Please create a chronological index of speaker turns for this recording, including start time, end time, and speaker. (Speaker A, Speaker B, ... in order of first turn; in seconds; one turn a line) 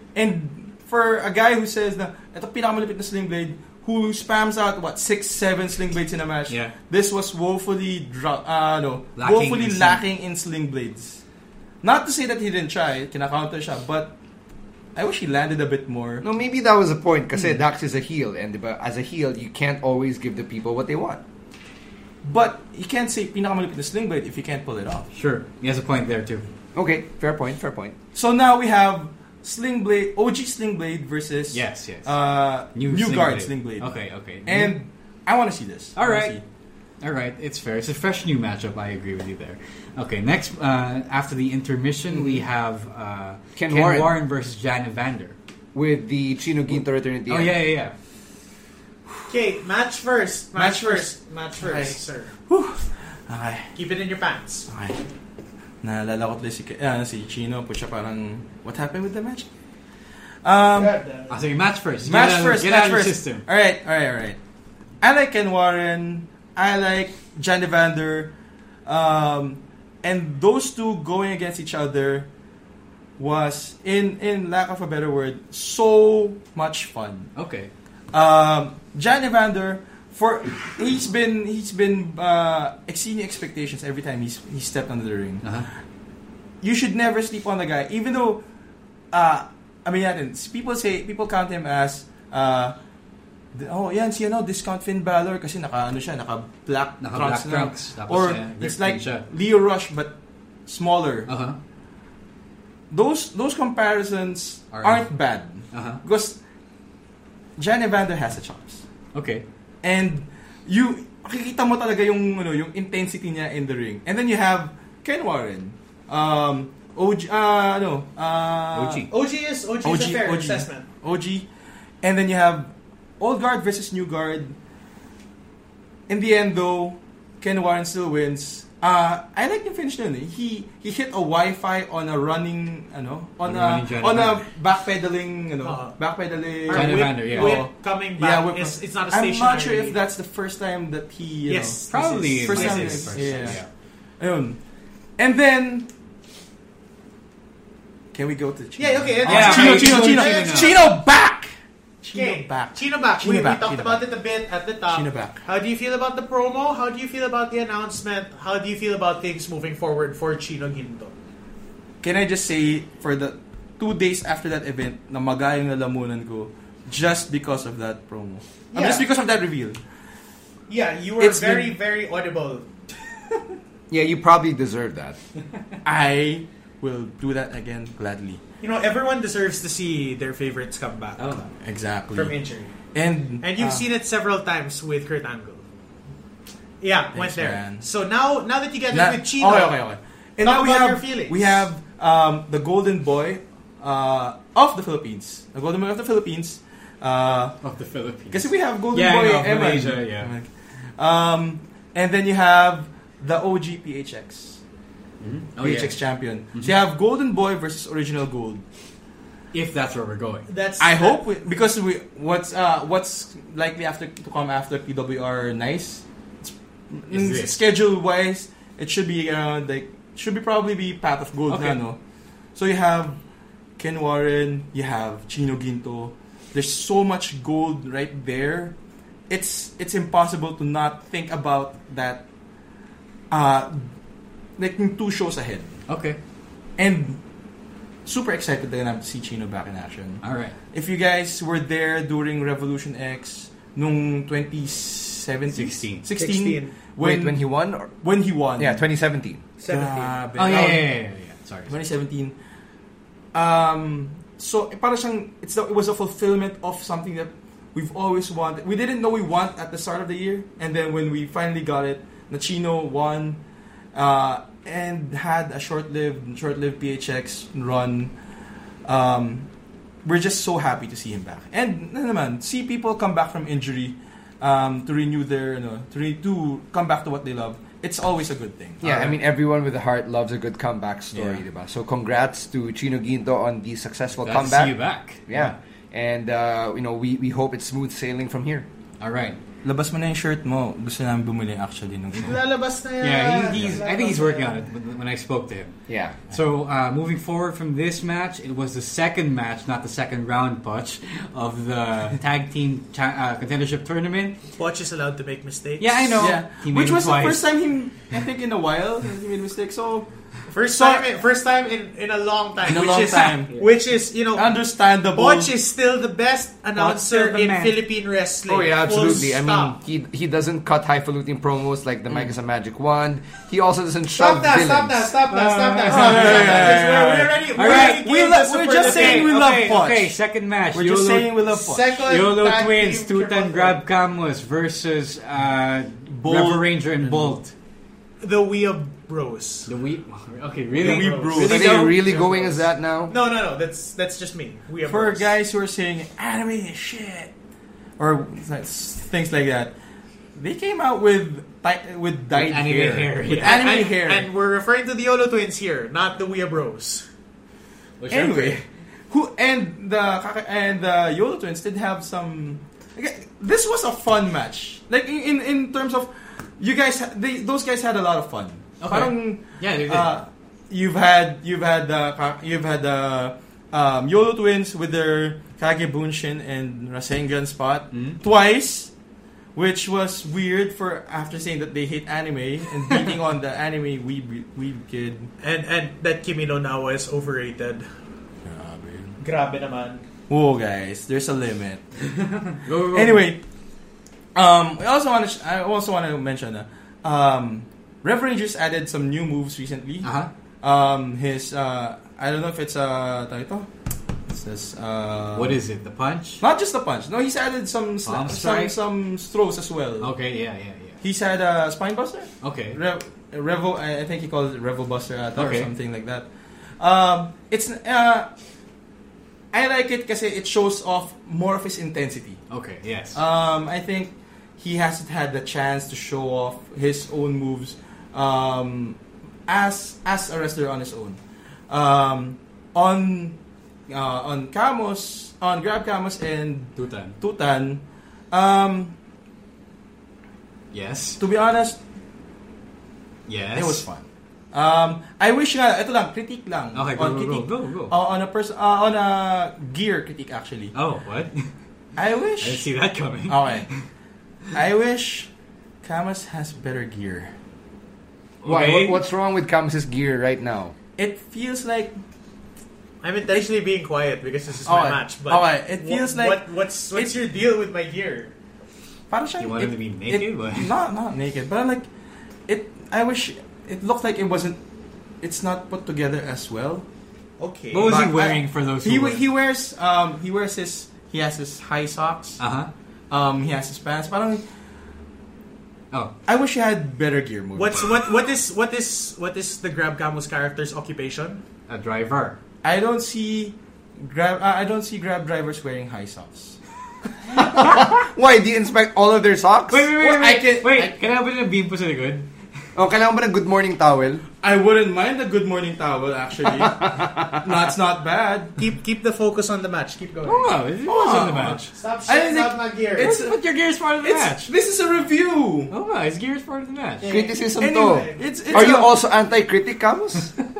Speaker A: 0.1-11.2
Speaker B: 9.2-10.0
Speaker A: 11.8-14.1
Speaker A: 14.9-16.2
Speaker C: 16.2-21.2
Speaker A: 22.2-25.1
Speaker B: 25.1-26.5
Speaker C: 26.7-27.9
Speaker A: 28.1-36.4
Speaker B: 31.5-32.1
Speaker B: 32.6-34.7
Speaker B: 36.0-36.4
Speaker B: 37.0-45.3
Speaker C: 42.1-42.4
Speaker C: 43.5-44.1
Speaker C: 45.7-47.6
Speaker B: 47.3-47.9
Speaker D: 49.3-52.3
Speaker A: 50.5-52.0
Speaker A: 52.5-53.7
Speaker D: 53.7-54.7
Speaker A: 54.7-55.0
Speaker A: 55.8-59.5
Speaker A: 60.4-61.0
Speaker D: 60.7-61.3
Speaker B: 61.3-63.4
Speaker A: 62.0-64.4
Speaker A: 65.0-68.3
Speaker A: 68.8-72.3
Speaker A: 73.2-77.3
Speaker B: 77.3-77.7
Speaker A: 78.1-85.6
Speaker B: 85.4-85.7
Speaker A: 86.6-88.4
Speaker A: 89.1-92.8
Speaker A: 93.5-100.1
Speaker B: 97.0-99.2
Speaker A: 100.7-101.3
Speaker B: 101.3-101.6
Speaker A: 102.9-106.4
Speaker B: 104.7-105.1
Speaker B: 105.7-106.0
Speaker A: 107.6-108.8
Speaker B: 109.1-109.4
Speaker A: 109.8-119.1
Speaker B: 118.7-119.1
Speaker D: 119.1-120.8
Speaker A: 119.8-121.5
Speaker A: 122.0-124.5
Speaker A: 126.1-143.6
Speaker B: 133.4-134.4
Speaker D: 135.6-135.9
Speaker D: 136.6-140.0
Speaker B: 136.7-137.6
Speaker D: 141.5-143.5
Speaker B: 141.9-143.7
Speaker A: 144.2-144.6
Speaker A: 145.2-145.9
Speaker A: 148.1-154.0
Speaker D: 148.8-150.8
Speaker B: 149.2-150.7
Speaker D: 152.1-161.1
Speaker A: 154.9-155.4
Speaker A: 162.0-169.8
Speaker D: 168.7-169.1
Speaker D: 170.7-172.7
Speaker A: 171.2-171.7
Speaker C: 173.9-175.2
Speaker A: 175.8-178.4
Speaker D: 178.6-181.2
Speaker B: 181.2-181.5
Speaker A: 181.6-182.3
Speaker D: 182.1-182.7
Speaker A: 182.9-183.8
Speaker D: 183.4-185.6
Speaker D: 186.8-189.8
Speaker A: 187.1-187.9
Speaker A: 188.9-197.6
Speaker D: 190.4-191.6
Speaker B: 197.6-200.3
Speaker A: 198.3-204.6
Speaker B: 205.2-206.0
Speaker A: 205.6-208.6
Speaker B: 209.5-210.5
Speaker D: 210.5-211.2
Speaker A: 210.8-222.0
Speaker B: 217.1-217.6
Speaker B: 221.5-221.8
Speaker A: 222.5-223.2
Speaker A: 223.8-228.7
Speaker A: 229.3-232.2
Speaker A: 233.3-233.9
Speaker A: 234.6-235.8
Speaker B: 235.9-236.2
Speaker A: 236.8-237.2
Speaker A: 238.1-248.8
Speaker B: 240.2-240.5
Speaker B: 245.5-246.1
Speaker D: 246.1-246.7
Speaker C: 247.0-247.9
Speaker C: 248.6-249.4
Speaker D: 249.6-250.2
Speaker A: 249.6-251.0
Speaker B: 250.3-251.7
Speaker A: 251.7-252.3
Speaker A: 253.3-263.4
Speaker A: 263.9-268.1
Speaker A: 268.9-269.5
Speaker A: 270.0-278.8
Speaker C: 278.8-288.6
Speaker B: 278.8-279.2
Speaker B: 281.1-281.4
Speaker B: 284.2-285.6
Speaker B: 289.0-289.4
Speaker A: 289.6-292.4
Speaker D: 292.1-294.6
Speaker B: 293.0-295.8
Speaker C: 295.9-296.2
Speaker B: 296.3-304.4
Speaker D: 304.6-306.2
Speaker B: 305.8-307.4
Speaker A: 306.2-310.1
Speaker D: 310.5-314.5
Speaker A: 310.6-311.1
Speaker A: 312.7-313.5
Speaker A: 314.3-315.5
Speaker D: 315.1-319.8
Speaker B: 316.8-317.8
Speaker C: 318.5-325.1
Speaker D: 324.1-329.3
Speaker B: 325.3-326.8
Speaker A: 325.9-330.2
Speaker B: 327.5-328.1
Speaker B: 328.8-331.3
Speaker A: 330.7-332.0
Speaker D: 331.5-333.8
Speaker B: 332.1-337.5
Speaker A: 336.1-337.4
Speaker D: 338.2-339.7
Speaker B: 339.6-342.6
Speaker A: 340.7-341.9
Speaker D: 340.7-341.3
Speaker C: 341.4-343.1
Speaker D: 343.1-345.3
Speaker A: 344.9-347.3
Speaker A: 348.0-349.7
Speaker A: 350.4-354.3
Speaker B: 352.3-353.8
Speaker D: 353.2-357.1
Speaker B: 358.0-358.6
Speaker A: 358.1-378.9
Speaker B: 368.8-370.1
Speaker B: 377.9-378.2
Speaker A: 379.5-385.3
Speaker D: 385.4-387.9
Speaker A: 388.4-389.1
Speaker D: 389.2-390.0
Speaker A: 390.3-391.8
Speaker B: 392.4-393.2
Speaker A: 392.6-393.4
Speaker A: 394.3-400.1
Speaker B: 400.0-400.3
Speaker A: 400.6-403.7
Speaker A: 404.3-405.6
Speaker B: 405.3-406.4
Speaker A: 406.4-410.1
Speaker B: 408.1-408.7
Speaker B: 410.0-411.0
Speaker A: 411.0-416.3
Speaker B: 412.4-412.8
Speaker B: 415.4-415.7
Speaker A: 416.8-418.3
Speaker A: 419.5-422.4
Speaker B: 422.5-423.2
Speaker A: 423.1-431.2
Speaker A: 431.7-433.4
Speaker A: 433.9-438.9
Speaker B: 436.8-437.1
Speaker B: 440.7-441.2
Speaker A: 441.2-441.8
Speaker B: 443.3-443.8
Speaker A: 443.5-450.7
Speaker B: 446.7-447.9
Speaker B: 450.7-451.5
Speaker A: 452.0-452.7
Speaker B: 452.4-453.7
Speaker A: 453.3-453.7
Speaker A: 454.5-455.3
Speaker A: 455.8-457.3
Speaker B: 458.4-459.0
Speaker C: 458.4-460.7
Speaker A: 461.0-461.9
Speaker D: 463.0-468.3
Speaker A: 464.6-467.1
Speaker A: 469.1-471.9
Speaker B: 469.4-470.7
Speaker A: 472.5-474.6
Speaker A: 475.2-476.8
Speaker D: 477.4-478.1
Speaker B: 477.7-479.2
Speaker A: 477.8-482.4
Speaker B: 482.4-482.7
Speaker A: 483.1-484.4
Speaker A: 486.3-487.9
Speaker D: 487.5-491.4
Speaker B: 491.7-492.4
Speaker A: 492.6-496.6
Speaker C: 497.4-499.9
Speaker B: 499.7-502.3
Speaker A: 500.0-500.9
Speaker C: 502.7-504.2
Speaker A: 504.4-508.6
Speaker C: 506.9-507.2
Speaker D: 508.6-510.5
Speaker B: 510.2-511.7
Speaker A: 510.8-513.4
Speaker D: 511.7-513.1
Speaker B: 513.0-514.5
Speaker A: 514.0-515.7
Speaker B: 515.7-517.1
Speaker D: 517.0-518.5
Speaker C: 517.0-520.3
Speaker A: 517.6-518.9